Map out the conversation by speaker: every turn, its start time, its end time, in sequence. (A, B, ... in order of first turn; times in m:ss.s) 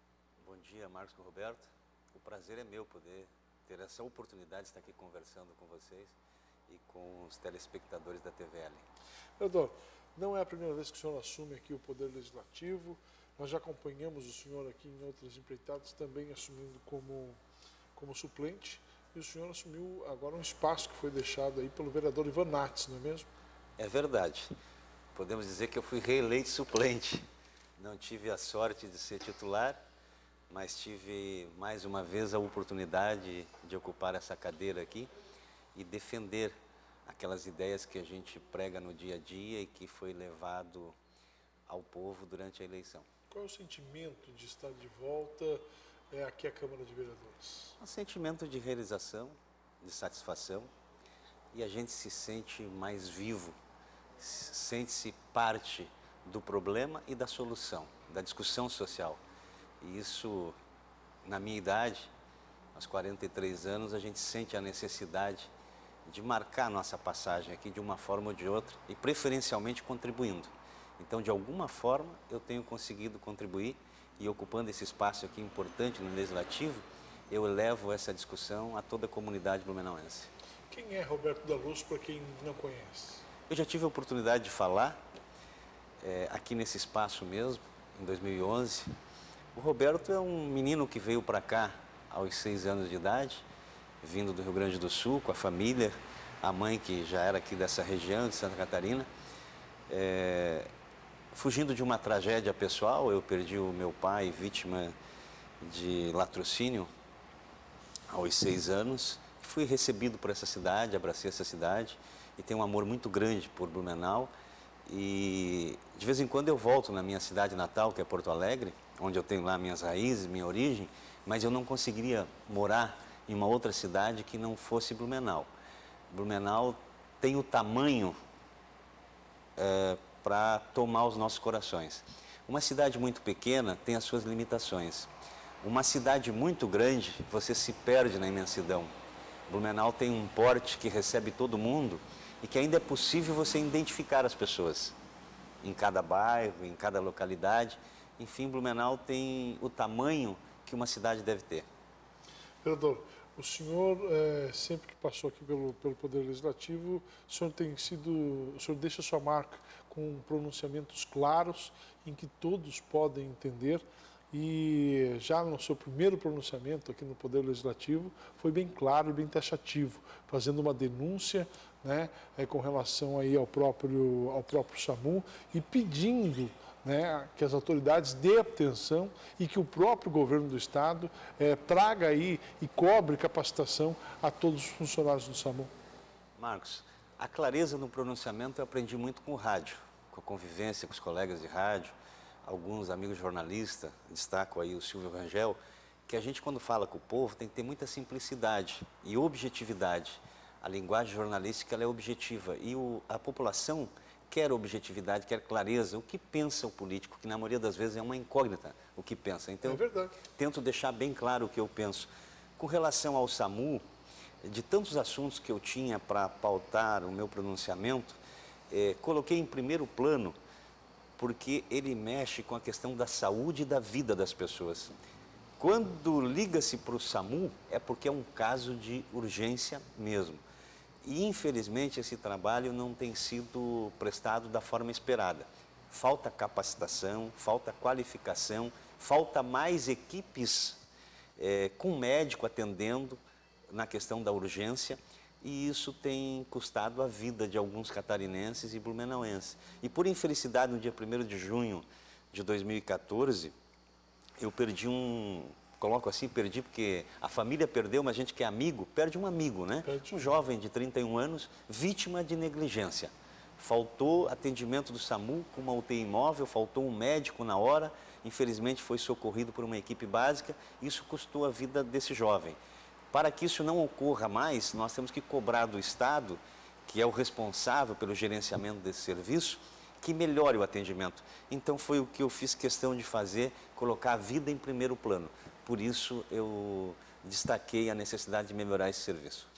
0:00.4-0:06.2 A
0:06.7-0:08.8 A
0:09.4-0:17.4 B
0:17.9-0:23.3 B
0:23.8-0:24.5 A
0:25.1-0:27.2 A
0:27.8-0:29.8 A
0:30.5-0:35.1 A
0:35.7-0:36.5 A
0:37.0-0:41.0 A
0:41.7-0:43.1 A
0:43.3-0:47.8 B
0:47.8-0:50.7 A
0:51.5-0:53.6 A
0:54.2-0:59.2 A
0:59.8-1:00.6 A
1:01.2-1:02.1 A
1:02.7-1:05.5 A
1:06.0-1:20.3 A
1:20.7-1:23.3 B
1:23.5-1:25.0 A
1:26.0-1:28.9 A
1:29.5-1:33.4 A
1:34.0-1:39.1 A
1:39.9-1:40.7 A
1:41.3-1:44.9 A
1:45.6-1:46.9 A
1:48.1-1:54.3 A
1:54.9-2:05.5 A
2:06.1-2:08.1 A
2:09.6-2:15.1 A
2:15.6-2:18.9 A
2:19.5-2:25.0 A
2:25.6-2:31.7 A
2:32.6-3:05.7 B
3:06.4-3:11.9 A
3:12.4-3:33.8 A
3:29.6-3:30.2 B
3:34.4-3:38.2 A
3:38.7-3:40.3 A
3:41.2-3:44.9 A
3:45.6-3:50.4 A
3:51.0-4:00.8 A
4:01.4-4:03.2 A
4:03.7-4:13.5 A
4:14.4-4:32.6 A
4:19.8-4:20.2 B
4:33.1-4:49.5 A